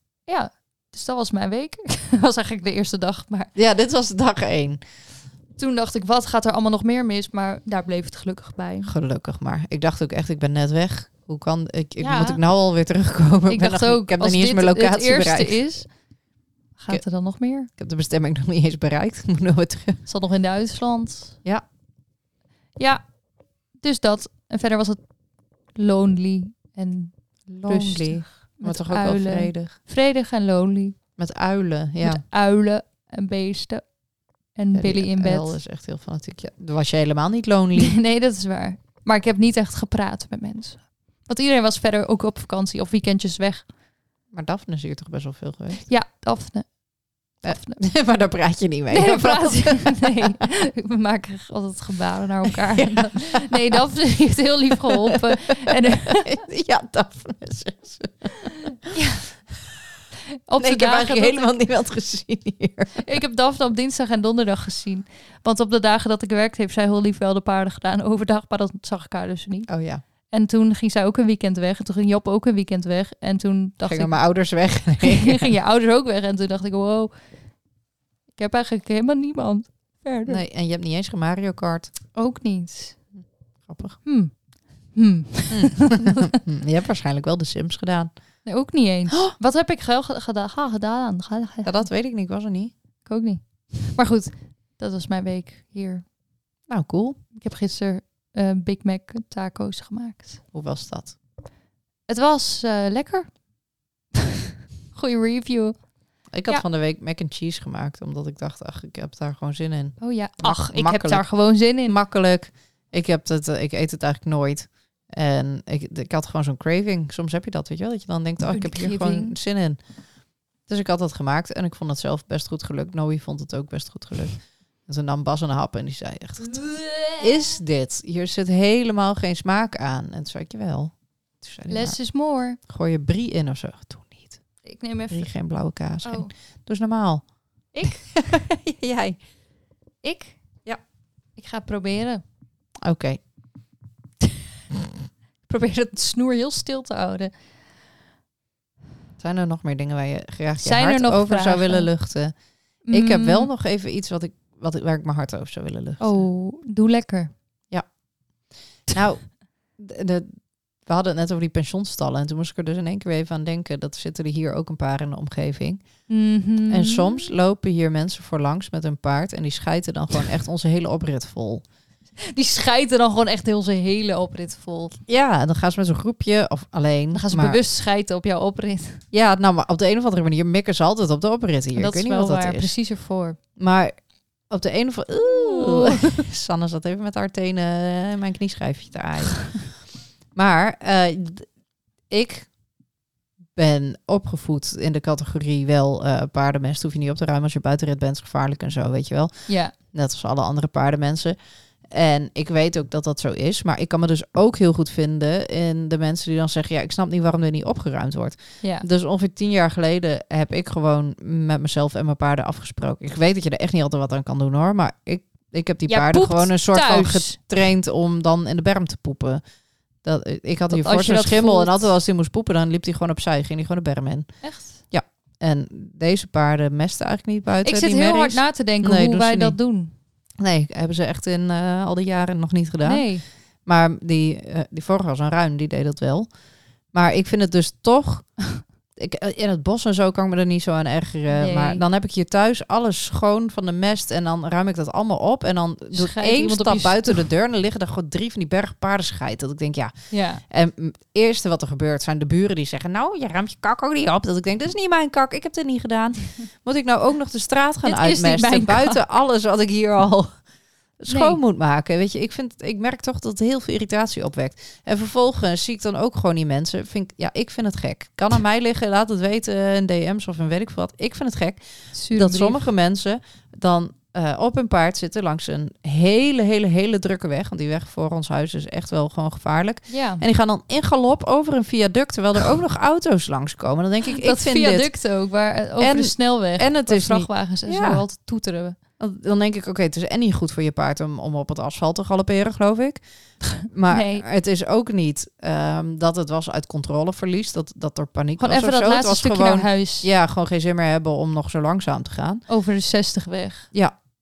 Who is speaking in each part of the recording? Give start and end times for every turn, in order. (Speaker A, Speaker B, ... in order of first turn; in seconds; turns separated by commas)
Speaker A: 0.3-3.5, Speaker B: 3.5-4.8, Speaker A: 5.6-8.9, Speaker B: 8.8-15.6, Speaker A: 12.0-12.4, Speaker A: 13.5-15.9, Speaker A: 16.8-17.7, Speaker B: 17.7-20.0, Speaker A: 20.1-21.4, Speaker A: 22.8-23.0, Speaker A: 23.8-25.0, Speaker A: 25.7-27.1, Speaker B: 27.5-29.7, Speaker A: 27.6-31.0, Speaker B: 31.2-32.2, Speaker A: 32.0-33.9, Speaker A: 34.5-35.6, Speaker B: 34.7-38.0, Speaker A: 37.8-43.7, Speaker B: 44.3-45.8, Speaker A: 45.9-46.7, Speaker A: 47.4-47.8, Speaker B: 47.4-50.3, Speaker A: 48.9-56.4, Speaker B: 52.8-53.8, Speaker B: 55.1-58.5, Speaker A: 58.9-59.2, Speaker A: 60.5-61.6, Speaker B: 60.6-63.0, Speaker A: 63.0-69.7, Speaker B: 69.7-70.0, Speaker A: 70.3-74.2, Speaker B: 73.8-75.5, Speaker A: 75.0-77.1, Speaker A: 78.3-80.4, Speaker B: 80.3-81.9, Speaker A: 82.1-83.0, Speaker B: 83.2-84.0, Speaker A: 84.0-84.3, Speaker A: 84.9-86.3, Speaker B: 85.5-88.1, Speaker A: 88.4-91.8, Speaker B: 91.6-92.7, Speaker A: 93.0-96.0, Speaker B: 96.7-97.2, Speaker A: 97.3-100.4, Speaker B: 100.5-101.2, Speaker A: 102.1-103.3, Speaker A: 104.9-105.8, Speaker B: 106.3-119.8, Speaker A: 110.0-112.0, Speaker A: 118.5-119.3, Speaker B: 120.7-126.6, Speaker A: 126.4-127.3, Speaker B: 127.2-132.0, Speaker A: 131.7-132.6, Speaker B: 132.6-134.4, Speaker A: 134.6-135.3, Speaker B: 135.1-137.2, Speaker A: 136.0-136.3, Speaker A: 137.7-138.0, Speaker B: 137.8-139.2, Speaker A: 140.0-140.4, Speaker A: 141.3-142.2, Speaker B: 142.8-143.2, Speaker A: 145.4-147.3, Speaker B: 149.2-152.3, Speaker A: 150.6-151.9, Speaker A: 152.9-153.5, Speaker B: 152.9-156.2, Speaker A: 156.0-157.3, Speaker B: 158.9-165.8, Speaker A: 166.1-167.3, Speaker B: 166.7-171.6, Speaker A: 172.3-175.0, Speaker B: 175.1-177.6, Speaker A: 177.1-179.0, Speaker B: 179.1-182.7, Speaker A: 181.7-183.4, Speaker B: 183.6-183.9, Speaker B: 184.5-189.8, Speaker A: 185.2-186.1, Speaker B: 190.3-191.5, Speaker B: 192.1-192.5, Speaker B: 193.6-201.3, Speaker A: 199.5-199.7, Speaker B: 201.9-219.4, Speaker A: 215.9-217.4, Speaker B: 220.0-224.3, Speaker A: 220.7-221.9, Speaker A: 224.4-224.8, Speaker B: 224.9-229.6, Speaker A: 227.6-229.9, Speaker B: 230.4-233.1, Speaker A: 232.8-233.2, Speaker B: 233.7-236.3, Speaker B: 236.9-238.3, Speaker B: 238.9-249.9, Speaker A: 241.3-241.8, Speaker A: 245.9-247.2, Speaker A: 250.1-250.4, Speaker B: 250.4-260.3, Speaker A: 257.8-259.0, Speaker B: 261.0-284.9, Speaker A: 261.1-261.4, Speaker A: 271.9-272.7, Speaker A: 279.9-280.2, Speaker A: 284.1-288.8, Speaker B: 285.8-288.0, Speaker B: 289.0-293.0, Speaker B: 293.6-302.4, Speaker A: 293.9-294.2, Speaker A: 298.4-300.1, Speaker A: 302.5-303.7